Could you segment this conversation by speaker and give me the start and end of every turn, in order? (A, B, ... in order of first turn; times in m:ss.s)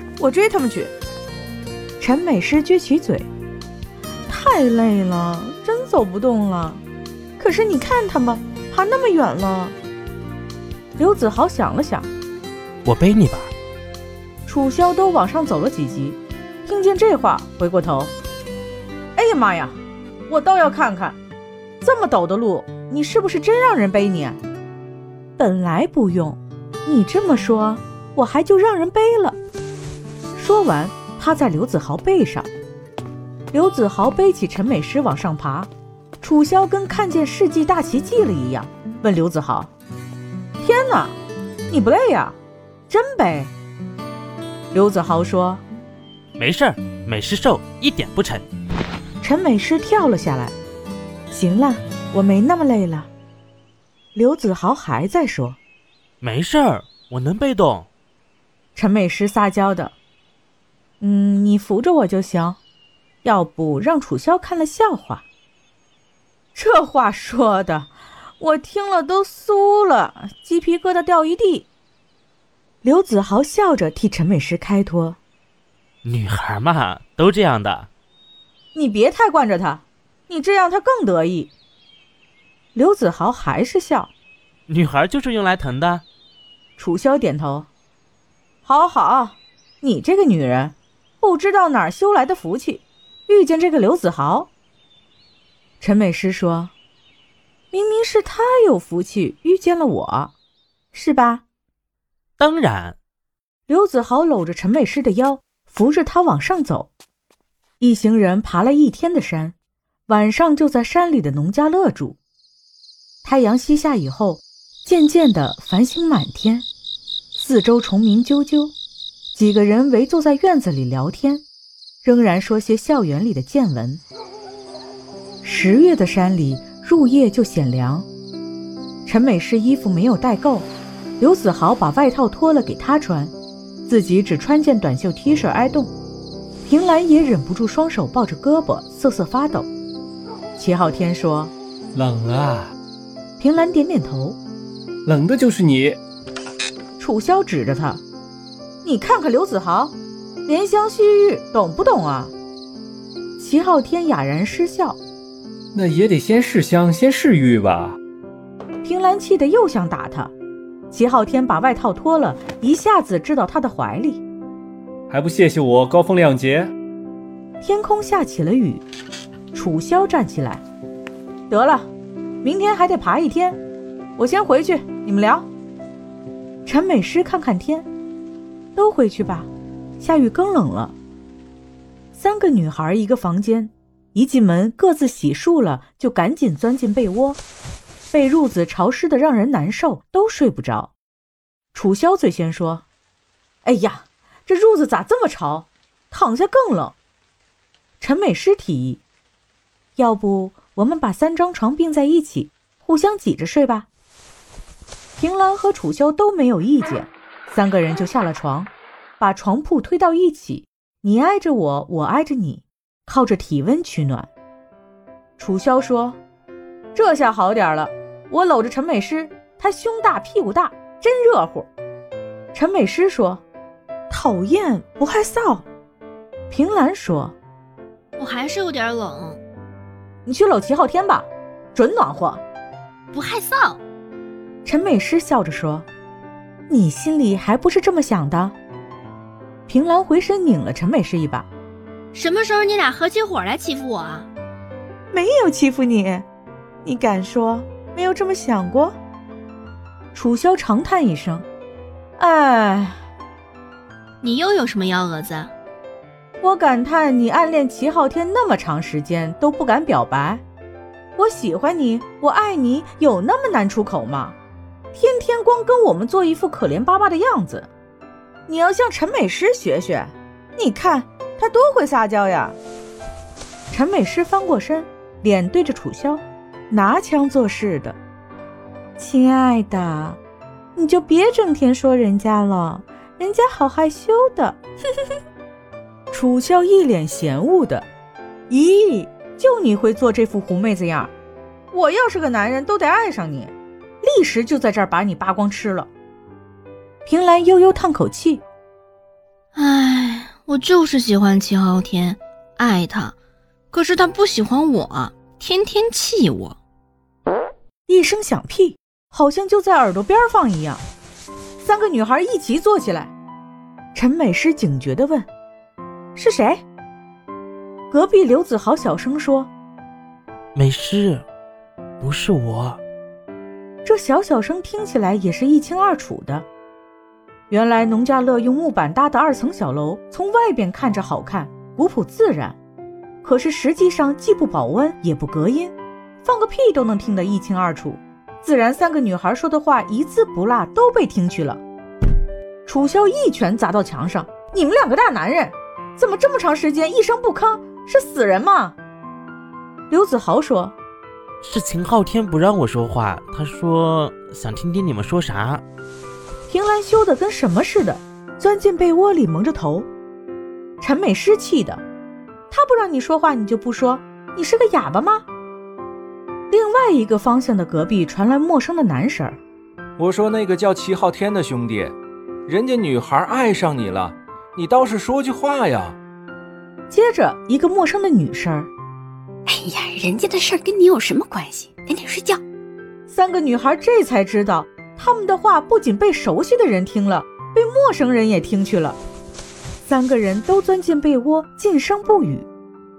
0:00.2-0:00.9 A
0:02.0-0:03.3 A
0:04.3-0:06.8 A
0:07.4-0:09.8 A
0:11.0-0:12.1 A
0:12.8-0:13.5 B
0:14.5-0:18.1 A
0:19.2-0:21.2 A
0:21.8-0:24.4 A
0:25.4-0:29.4 A
0:30.4-0:32.5 A
0:33.5-0:35.7 A
0:36.2-0:39.7 A
0:40.6-0:41.2 A
0:41.7-0:42.4 A
0:42.9-0:43.5 A
0:44.7-0:45.6 A
0:46.4-0:48.4 B
0:49.2-0:50.6 A
0:51.3-0:53.1 A
0:54.2-0:55.6 A
0:56.2-0:57.9 B
0:58.8-1:00.0 A
1:01.0-1:02.6 A
1:03.2-1:05.3 A
1:06.6-1:11.7 A
1:12.8-1:15.2 A
1:16.0-1:17.9 B
1:18.7-1:21.5 A
1:22.8-1:24.1 A
1:24.7-1:26.0 B
1:26.8-1:27.7 A
1:28.6-1:34.5 A
1:35.8-1:36.7 A
1:37.7-1:40.3 A
1:40.9-1:41.4 A
1:42.4-1:43.0 B
1:43.7-1:46.9 A
1:47.8-1:49.6 A
1:50.1-1:52.2 A
1:53.2-1:56.7 A
1:57.4-1:58.7 A
1:59.3-2:01.4 A
2:02.0-2:04.0 A
2:05.4-2:08.1 A
2:09.1-2:10.7 A
2:11.2-2:13.3 A
2:13.8-2:15.9 A
2:16.7-2:19.7 A
2:20.6-2:21.5 A
2:21.9-2:22.7 C
2:23.4-2:24.4 A
2:25.0-2:26.0 C
2:27.0-2:28.0 A
2:28.8-2:30.0 A
2:30.5-2:32.3 A
2:33.4-2:35.0 A
2:35.7-2:38.0 C
2:38.8-2:40.3 A
2:40.9-2:44.2 A
2:45.1-2:46.7 C
2:47.6-2:48.8 A
2:49.5-2:50.6 A
2:51.5-2:51.9 A
2:52.4-2:53.6 A
2:54.2-2:55.5 A
2:56.6-2:57.9 A
2:58.8-3:01.0 A
3:02.1-3:07.4 A
3:08.1-3:10.9 A
3:11.7-3:12.8 A
3:13.6-3:17.0 A
3:18.0-3:19.0 A
3:20.0-3:23.9 A
3:25.2-3:34.3 A
3:35.4-3:36.2 A
3:37.0-3:41.7 A
3:42.5-3:43.4 A
3:44.1-3:45.7 A
3:46.5-3:47.4 A
3:48.2-3:49.4 D
3:50.3-3:52.4 A
3:53.1-3:53.8 D
3:54.6-3:55.9 A
3:56.7-3:58.6 A
3:59.7-4:01.5 A
4:02.1-4:04.3 D
4:05.1-4:06.3 A
4:06.8-4:09.0 A
4:10.1-4:11.5 A
4:12.2-4:13.0 A
4:14.2-4:15.5 D
4:16.4-4:20.4 A
4:21.2-4:24.4 A
4:24.9-4:27.7 A
4:28.5-4:32.6 A
4:33.7-4:38.0 A
4:39.0-4:40.2 A
4:40.8-4:44.6 A
4:46.1-4:47.9 A
4:48.5-4:51.1 A
4:51.7-4:55.9 A
4:57.1-4:58.4 A
4:59.6-5:03.2 D
5:03.7-5:06.6 D
5:07.9-5:10.8 A
5:11.6-5:13.1 A
5:14.0-5:15.3 A
5:16.2-5:16.6 A
5:17.9-5:19.5 A
5:20.6-5:21.2 B
5:22.0-5:22.8 B
5:23.8-5:26.5 A
5:27.5-5:32.6 A
5:33.2-5:41.6 A
5:42.7-5:48.8 A
5:49.9-5:50.8 A
5:51.4-5:55.6 B
5:56.5-5:59.9 A
6:00.8-6:01.8 A
6:02.5-6:05.2 A
6:06.5-6:09.4 A
6:10.0-6:12.0 E
6:12.5-6:16.0 E
6:16.9-6:18.7 A
6:19.5-6:22.4 F
6:23.1-6:29.0 A
6:29.8-6:32.5 A